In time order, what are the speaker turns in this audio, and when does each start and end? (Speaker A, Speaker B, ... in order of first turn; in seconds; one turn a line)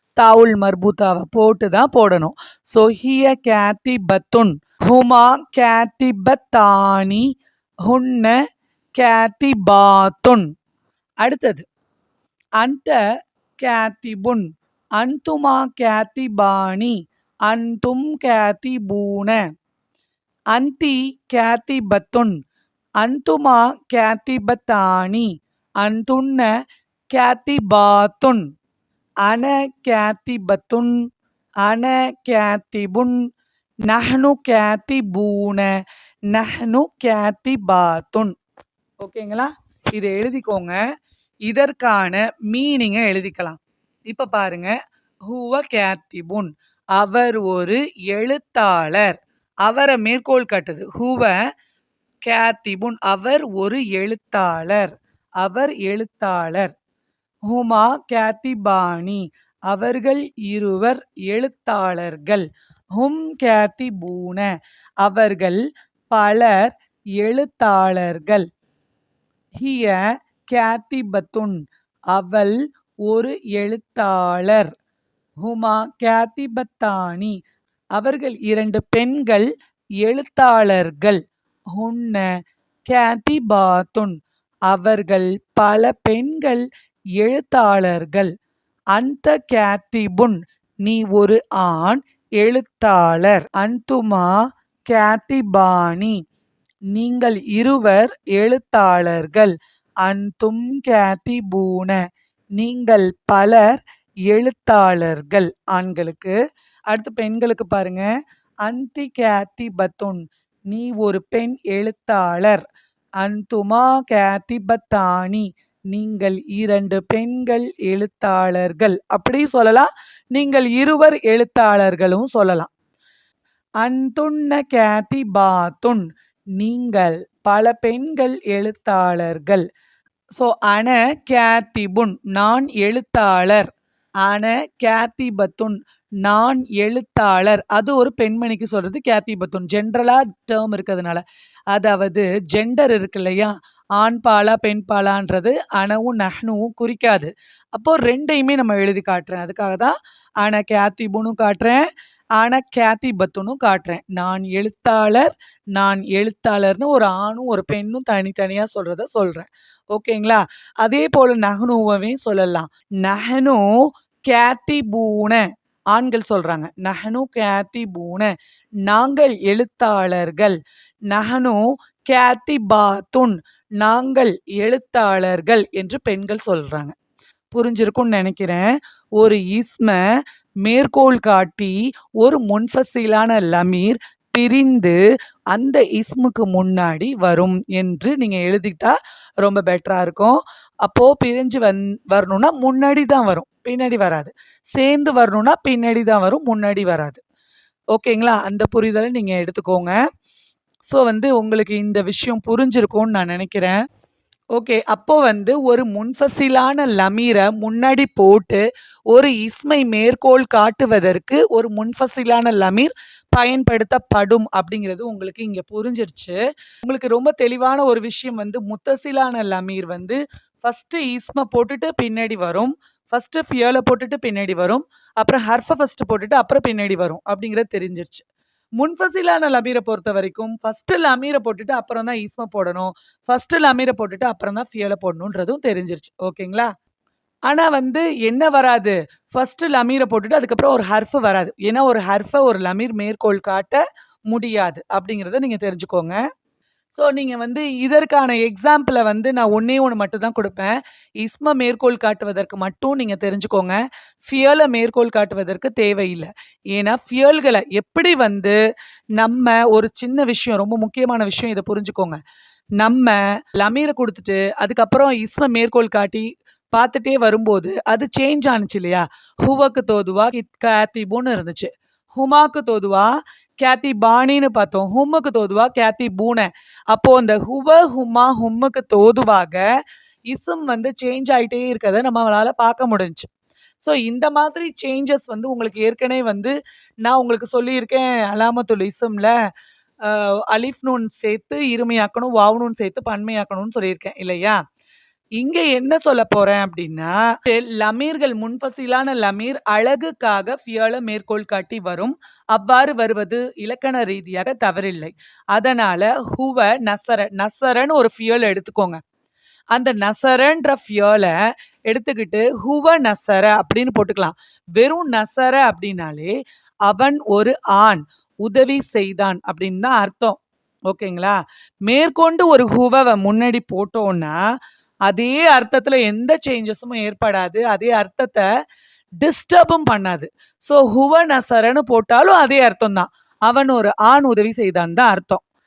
Speaker A: 0.2-7.3
Speaker A: 7.8-8.4
Speaker A: 9.0-10.5
Speaker A: 11.2-11.6
Speaker A: 12.6-13.0
Speaker A: 13.6-14.4
Speaker A: 15.0-16.9
Speaker A: 17.5-19.4
Speaker A: 20.5-22.3
Speaker A: 23.0-25.3
Speaker A: 25.8-26.5
Speaker A: 27.1-28.4
Speaker A: 29.2-30.9
Speaker A: 31.6-33.2
Speaker A: 33.9-35.7
Speaker A: 36.3-38.3
Speaker A: 39.0-40.8
Speaker A: 41.5-44.7
Speaker A: 45.3-51.3
Speaker A: 52.2-56.7
Speaker A: 57.5-62.5
Speaker A: 63.0-64.5
Speaker A: 65.0-65.6
Speaker A: 66.1-68.5
Speaker A: 69.5-71.6
Speaker A: 72.1-74.7
Speaker A: 75.4-77.4
Speaker A: 78.0-79.5
Speaker A: 80.0-81.2
Speaker A: 81.7-82.2
Speaker A: 82.9-84.2
Speaker A: 84.7-86.6
Speaker A: 87.2-88.3
Speaker A: 88.9-94.3
Speaker A: 94.9-96.2
Speaker A: 96.9-102.0
Speaker A: 102.6-106.4
Speaker A: 106.9-108.1
Speaker A: 108.6-112.6
Speaker A: 113.2-122.7
Speaker A: 123.8-126.1
Speaker A: 126.6-129.6
Speaker A: 130.4-133.7
Speaker A: 134.2-151.8
Speaker A: 152.4-163.6
Speaker A: 164.3-168.3
Speaker A: 168.9-170.6
Speaker A: 171.1-176.9
Speaker A: 177.5-180.0
Speaker A: 180.6-185.0
Speaker A: 185.5-197.2
Speaker A: 197.9-199.9
Speaker A: 200.9-203.8
Speaker A: 204.5-228.2
Speaker A: 228.8-236.7
Speaker A: 237.5-246.2
Speaker A: 246.9-258.6
Speaker A: 259.2-262.2
Speaker A: 262.8-279.6
Speaker A: 280.3-283.3
Speaker A: 283.8-286.5
Speaker A: 287.0-289.3
Speaker A: 290.0-294.6
Speaker A: 295.4-309.0
Speaker A: 309.7-311.3
Speaker A: 311.9-316.3
Speaker A: 316.9-320.4
Speaker A: 320.9-321.4
Speaker A: 321.9-324.4
Speaker A: 325.1-328.4
Speaker A: 329.2-335.4